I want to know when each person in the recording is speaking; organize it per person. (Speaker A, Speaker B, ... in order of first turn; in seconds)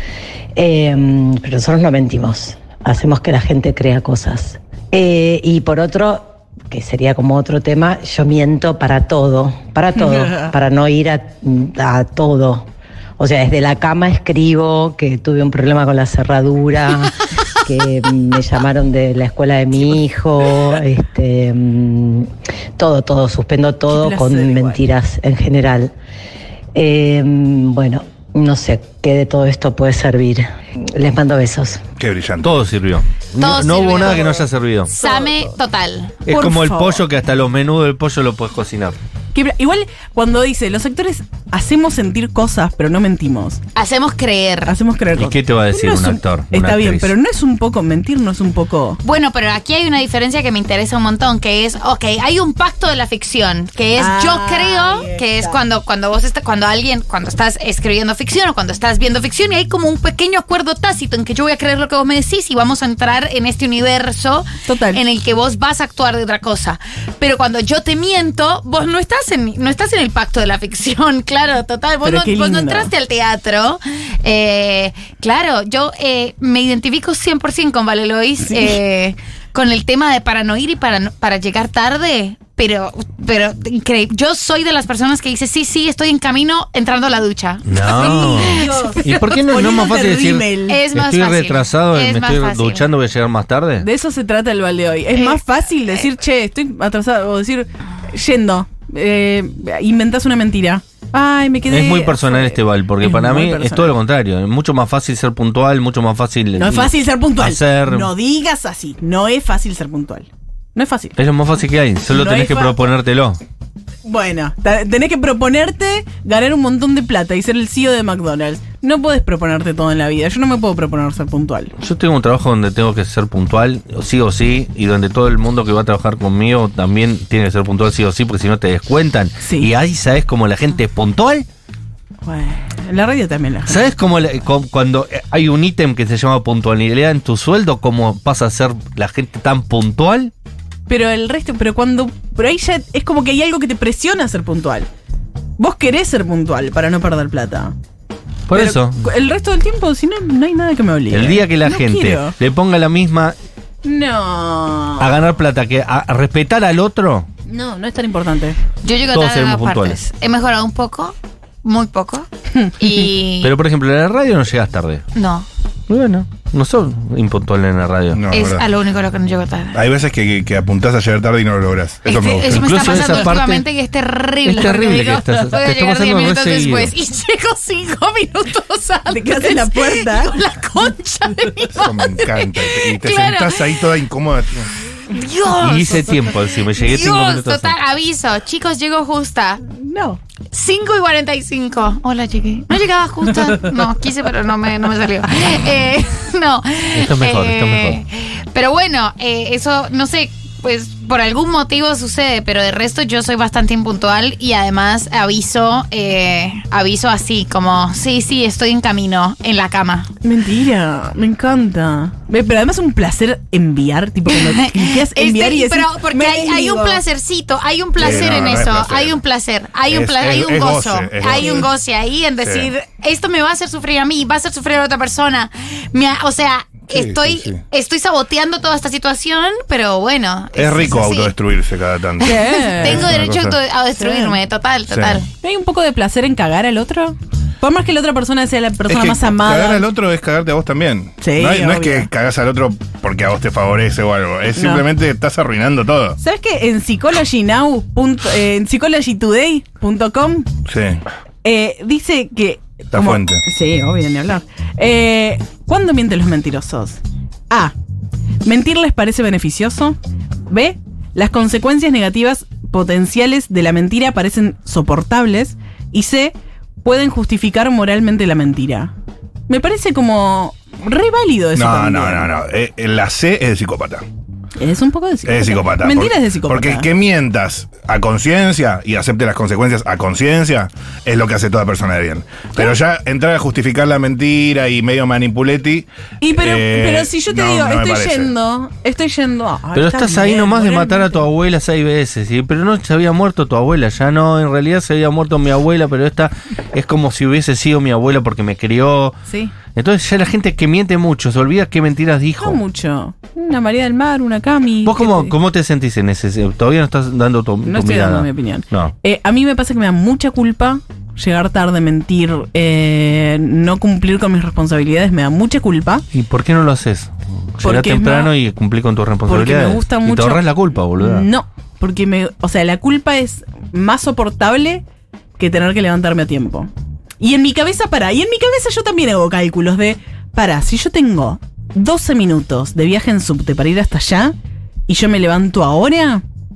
Speaker A: 0.6-25.9, 26.8-31.8
Speaker B: 10.0-10.5, 23.9-24.8, 35.0-35.5, 36.3-37.1, 39.3-43.6, 44.7-49.0, 54.0-55.6, 64.7-65.0, 72.0-72.9, 78.4-78.8, 87.9-90.8, 93.8-104.0, 106.6-111.2, 112.1-112.9, 114.0-121.7, 129.4-129.7, 132.2-134.0, 140.9-144.9, 145.6-147.7, 148.5-152.4, 153.8-155.1, 157.5-158.6, 179.1-180.4, 189.8-190.2, 210.2-217.0, 232.2-233.1, 234.0-234.4, 235.4-239.9, 241.2-242.1, 244.6-244.9, 246.2-250.5, 251.4-257.7, 258.4-260.0, 260.5-268.9, 269.5-272.3, 274.6-276.9, 286.2-291.3, 299.3-299.6, 302.4-305.4, 307.6-316.0, 317.6-318.4, 319.3-324.8, 325.4-334.4, 334.9-336.2
Speaker C: 32.0-32.6, 168.1-168.7, 169.7-173.2, 181.7-184.7, 218.0-219.2, 219.9-221.7, 222.4-222.7, 226.9-227.6, 230.6-233.6, 234.9-235.2, 238.9-246.2, 250.7-251.0, 252.9-253.4, 271.6-274.1, 275.3-288.3
Speaker D: 32.4-34.9, 36.3-39.0, 45.1-47.1, 87.7-93.9, 101.7-108.1, 111.2-113.4, 121.8-131.5, 133.7-140.3, 148.5-149.0, 151.1-153.4, 155.0-157.3, 159.1-160.0, 163.4-165.1, 165.9-168.3, 172.5-173.7, 174.4-176.9, 185.6-187.8, 196.9-198.0, 289.7-299.2, 299.7-302.6, 304.9-308.9, 316.1-321.3
Speaker E: 33.4-36.5, 43.8-44.8, 49.0-89.3, 90.7-92.9, 95.1-96.0, 158.8-162.3, 162.8-163.5, 165.2-165.5, 168.3-169.9, 172.1-183.9, 185.1-186.0, 186.8-189.6, 190.5-210.1, 214.3-231.3, 232.2-235.3